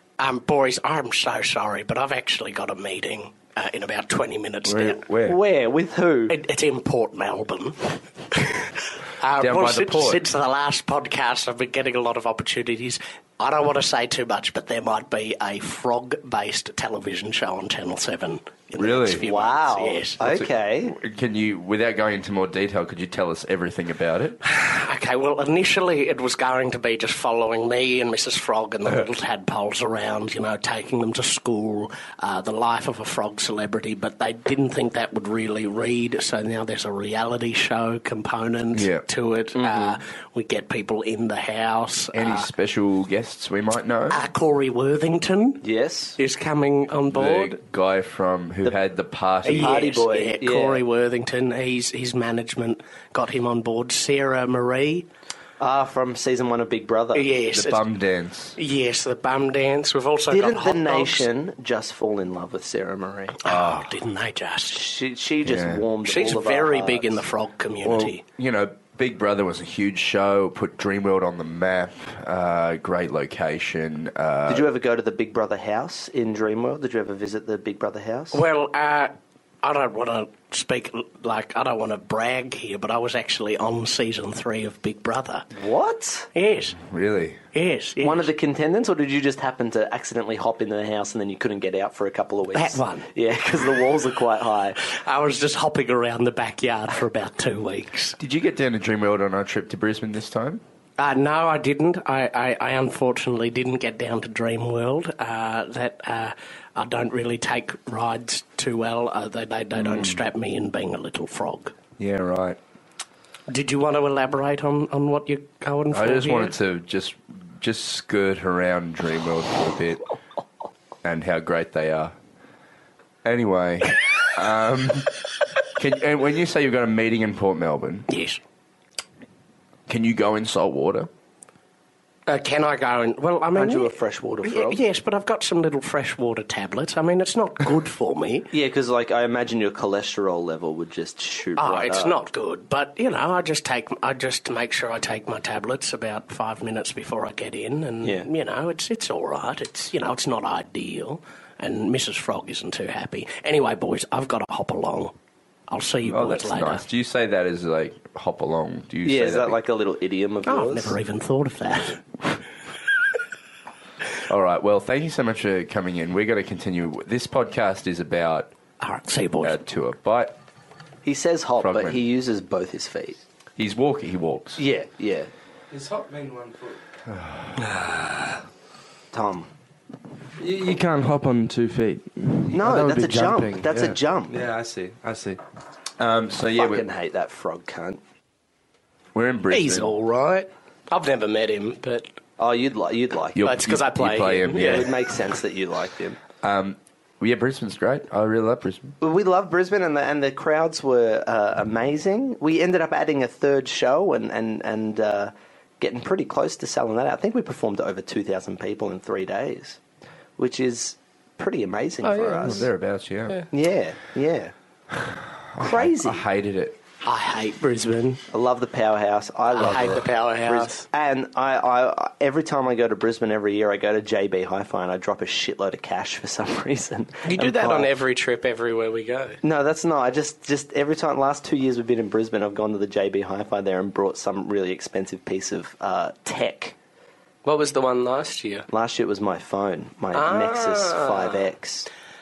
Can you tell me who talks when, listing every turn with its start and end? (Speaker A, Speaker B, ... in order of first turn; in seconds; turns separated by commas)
Speaker A: 0.2-5.0, Speaker B: 4.7-5.4, Speaker C: 5.2-6.4, Speaker A: 6.3-20.2, Speaker B: 9.4-10.2, Speaker B: 18.8-19.2, Speaker C: 19.2-20.9, Speaker B: 20.2-24.4, Speaker A: 24.4-42.5, Speaker B: 38.7-39.0, Speaker B: 42.1-44.2, Speaker A: 44.1-45.6, Speaker C: 45.6-46.2, Speaker A: 46.2-47.6, Speaker B: 47.1-49.8, Speaker A: 49.4-55.1, Speaker C: 49.5-50.8, Speaker C: 55.6-57.3, Speaker A: 57.1-57.8, Speaker B: 57.5-58.6, Speaker A: 58.5-61.3, Speaker C: 60.3-63.4, Speaker A: 63.4-64.9, Speaker B: 63.5-63.9, Speaker C: 64.7-67.2, Speaker B: 65.4-65.8, Speaker A: 66.0-68.2, Speaker B: 67.8-74.7, Speaker C: 74.5-78.4, Speaker A: 78.3-85.5, Speaker C: 85.5-86.3, Speaker A: 86.3-86.8, Speaker B: 86.8-87.4, Speaker A: 87.5-88.3, Speaker C: 88.0-94.8, Speaker A: 92.5-93.1, Speaker A: 94.8-98.2, Speaker B: 98.2-100.6, Speaker A: 101.0-111.8, Speaker B: 109.9-110.2, Speaker B: 112.0-112.6, Speaker A: 113.5-116.5, Speaker B: 115.9-120.0, Speaker B: 121.0-122.1, Speaker B: 123.2-125.1, Speaker B: 125.8-128.1, Speaker A: 128.1-128.4, Speaker B: 129.9-131.1, Speaker A: 132.3-138.5, Speaker C: 133.5-134.8, Speaker C: 138.5-142.1, Speaker A: 141.6-155.1, Speaker A: 155.7-156.8, Speaker B: 156.0-159.6, Speaker C: 159.0-161.0, Speaker A: 160.4-162.0, Speaker B: 164.3-168.5, Speaker A: 168.8-169.6, Speaker B: 169.4-170.4, Speaker C: 171.0-173.2, Speaker B: 171.6-172.0, Speaker B: 173.6-174.6, Speaker C: 174.6-175.3, Speaker D: 175.7-176.8, Speaker B: 177.1-178.2, Speaker C: 179.1-179.5, Speaker D: 180.4-185.4, Speaker C: 182.5-184.4, Speaker B: 186.0-186.8, Speaker C: 186.6-188.0, Speaker B: 189.1-189.9, Speaker A: 189.5-192.1, Speaker C: 192.4-193.4, Speaker B: 193.3-194.9, Speaker A: 193.4-194.9, Speaker C: 194.5-196.2, Speaker B: 196.4-198.9, Speaker C: 199.0-209.8, Speaker C: 210.4-212.7, Speaker A: 212.0-212.7, Speaker B: 212.4-213.4, Speaker C: 213.5-214.5, Speaker B: 214.9-216.8, Speaker C: 215.6-216.2, Speaker A: 217.0-218.2, Speaker C: 218.3-227.9, Speaker A: 219.5-220.8, Speaker A: 227.2-229.4, Speaker C: 229.4-236.8, Speaker A: 237.4-238.7, Speaker C: 238.7-241.9, Speaker A: 240.1-241.4